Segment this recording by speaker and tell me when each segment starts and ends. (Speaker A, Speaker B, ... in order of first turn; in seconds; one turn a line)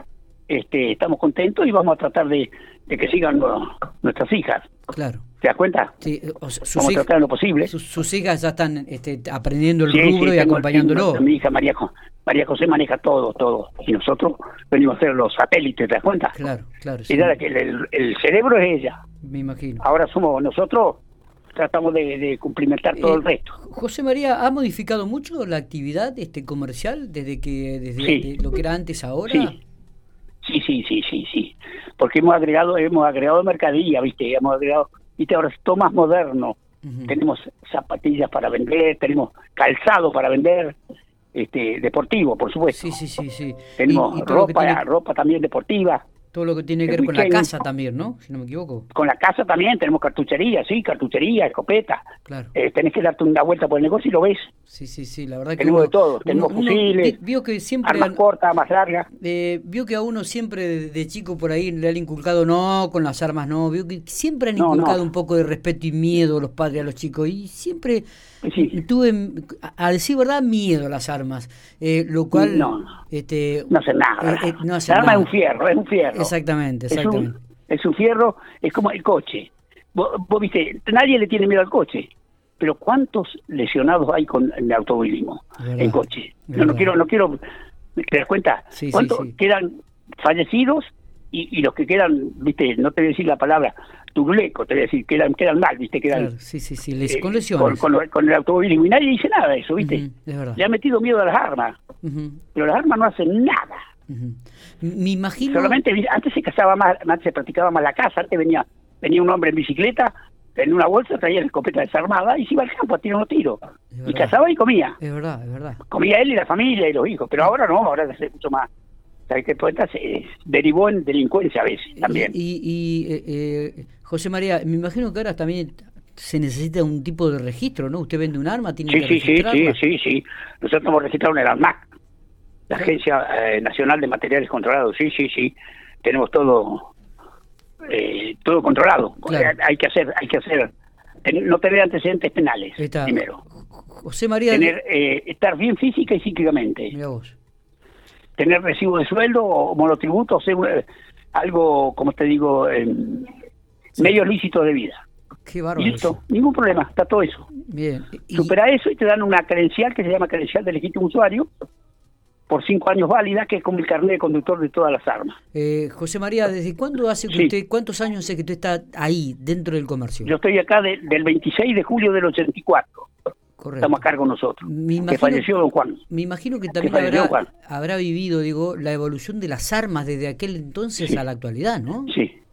Speaker A: 0.5-4.7
Speaker B: 4.9-5.2
Speaker A: 5.4-5.9
Speaker B: 6.0-7.1
Speaker A: 6.7-7.7
Speaker B: 7.7-11.3
Speaker A: 9.9-16.4
Speaker B: 16.4-17.4
Speaker A: 17.1-19.0
Speaker B: 19.2-19.8
Speaker A: 19.8-21.0
Speaker A: 21.6-23.6
Speaker B: 23.0-29.6
Speaker A: 28.0-28.3
Speaker A: 29.3-29.5
Speaker A: 30.4-40.8
Speaker B: 36.8-37.1
Speaker A: 41.3-42.9
Speaker B: 42.7-44.8
Speaker A: 43.8-46.0
Speaker B: 46.3-48.9
Speaker A: 46.9-47.5
Speaker A: 48.9-52.0
Speaker B: 52.3-52.5
Speaker A: 52.5-54.5
Speaker B: 54.7-58.2
Speaker A: 55.6-57.2
Speaker A: 57.8-59.1
Speaker B: 59.2-68.0
Speaker A: 64.6-65.0
Speaker A: 68.4-68.7
Speaker B: 68.6-75.3
Speaker A: 72.3-72.9
Speaker A: 73.7-76.3
Speaker B: 76.1-77.4
Speaker A: 76.9-82.1
Speaker A: 82.6-87.4
Speaker B: 85.6-86.9
Speaker A: 88.0-96.3
Speaker B: 88.7-89.3
Speaker B: 96.1-97.8
Speaker A: 97.1-100.0
Speaker B: 99.8-100.6
Speaker A: 100.6-101.8
Speaker B: 102.0-102.4
Speaker A: 102.5-103.8
Speaker B: 104.1-105.8
Speaker A: 105.4-115.0
Speaker B: 114.0-114.3
Speaker B: 115.0-115.8
Speaker A: 115.9-118.7
Speaker A: 119.3-122.3
Speaker B: 122.0-129.8
Speaker A: 128.9-131.8
Speaker A: 132.7-136.9
Speaker A: 137.9-140.7
Speaker A: 141.2-143.4
Speaker B: 142.8-144.8
Speaker A: 144.5-146.9
Speaker B: 146.9-147.4
Speaker A: 148.4-153.3
Speaker A: 154.0-155.0
Speaker B: 155.4-156.2
Speaker A: 155.8-157.5
Speaker B: 157.6-158.5
Speaker A: 158.3-161.5
Speaker A: 162.5-165.4
Speaker B: 165.5-170.3
Speaker A: 170.2-173.1
Speaker B: 173.6-174.0
Speaker A: 173.8-176.0
Speaker B: 174.6-175.5
Speaker B: 176.1-182.1
Speaker A: 176.8-177.5